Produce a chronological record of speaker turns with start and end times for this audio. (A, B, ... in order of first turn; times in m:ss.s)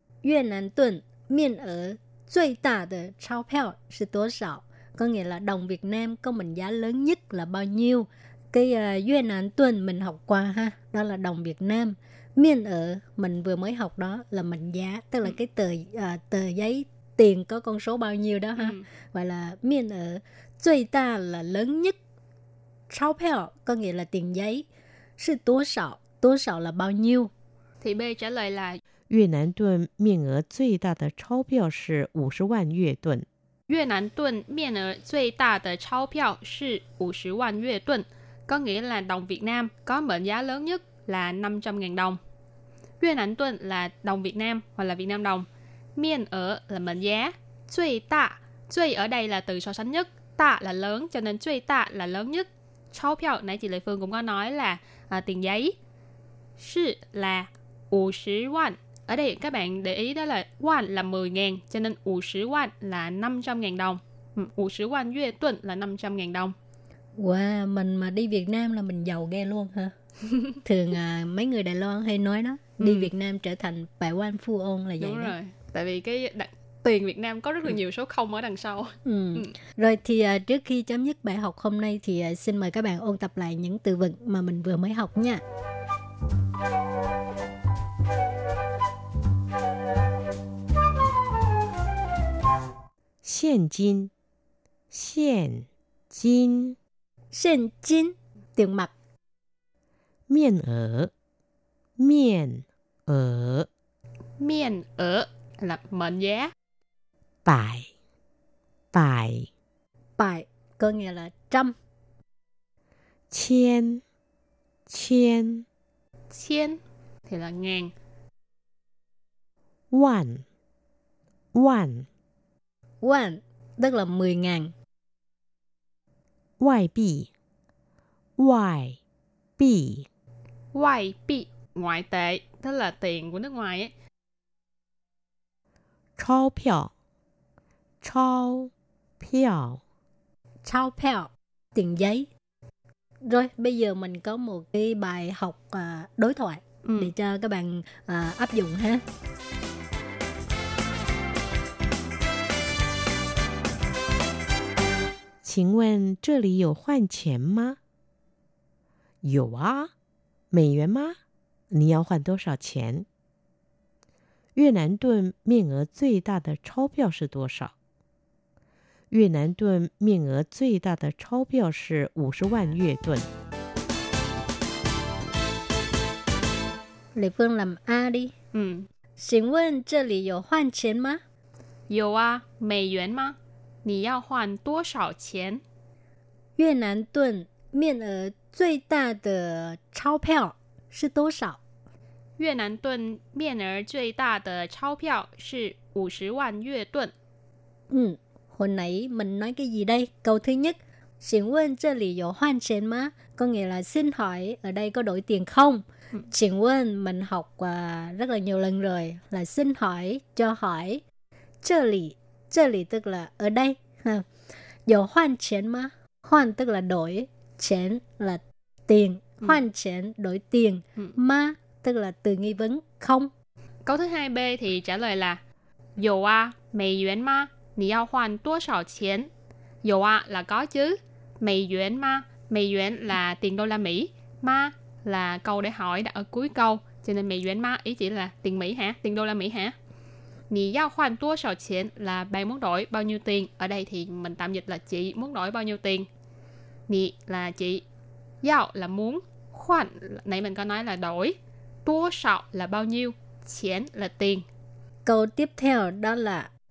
0:00.2-0:22.0 A
0:18.6-0:18.8 B
0:22.9-0:24.6 A
0:25.2-0:27.3 A
0:27.8-0:28.8 B
0:29.1-0:33.2 C
0:33.7-0:42.2 B
0:43.0-0:55.8 B
0:56.6-1:06.6 B
1:07.2-1:09.9 A
1:10.6-1:15.3 A
1:12.8-1:13.1 B
1:15.0-1:19.5 B
1:19.0-1:25.4 A
1:33.2-1:34.1 C
1:34.9-1:36.8 C
1:37.3-1:38.9 A
1:40.3-1:41.1 C
1:42.0-1:43.7 C
1:44.4-1:46.5 B
1:47.4-1:47.9 C
1:48.9-1:49.5 C
1:50.2-1:51.8 A
1:53.3-1:54.0 C
1:54.9-1:55.6 C
1:56.3-1:57.9 B
1:59.9-2:00.4 C
2:01.5-2:02.1 C
2:03.0-2:04.7 A
2:06.6-2:07.3 C
2:08.4-2:09.0 C
2:09.6-2:10.1 C
2:10.7-2:13.9 B
2:16.2-2:16.9 C
2:18.0-2:19.8 C
2:20.6-2:22.3 A
2:23.2-2:29.0 A
2:26.8-2:27.1 B
2:35.4-2:37.8 C
2:39.2-2:39.9 C
2:40.5-2:41.2 C
2:41.7-2:43.0 C
2:44.6-2:47.7 C
2:49.1-2:53.3 C
2:57.1-2:58.3 A
2:58.5-2:58.9 B
2:59.2-3:01.2 A
3:01.9-3:05.6 B
3:06.6-3:11.6 A
3:12.4-3:17.1 B
3:17.9-3:31.0 A
3:31.6-3:34.3 A
3:34.8-3:43.3 A
3:43.8-3:45.4 B
3:46.0-3:49.3 B
3:49.8-3:59.7 B
4:00.5-4:06.1 B
4:06.9-4:07.8 B
4:08.4-4:14.4 B
4:15.0-4:16.5 A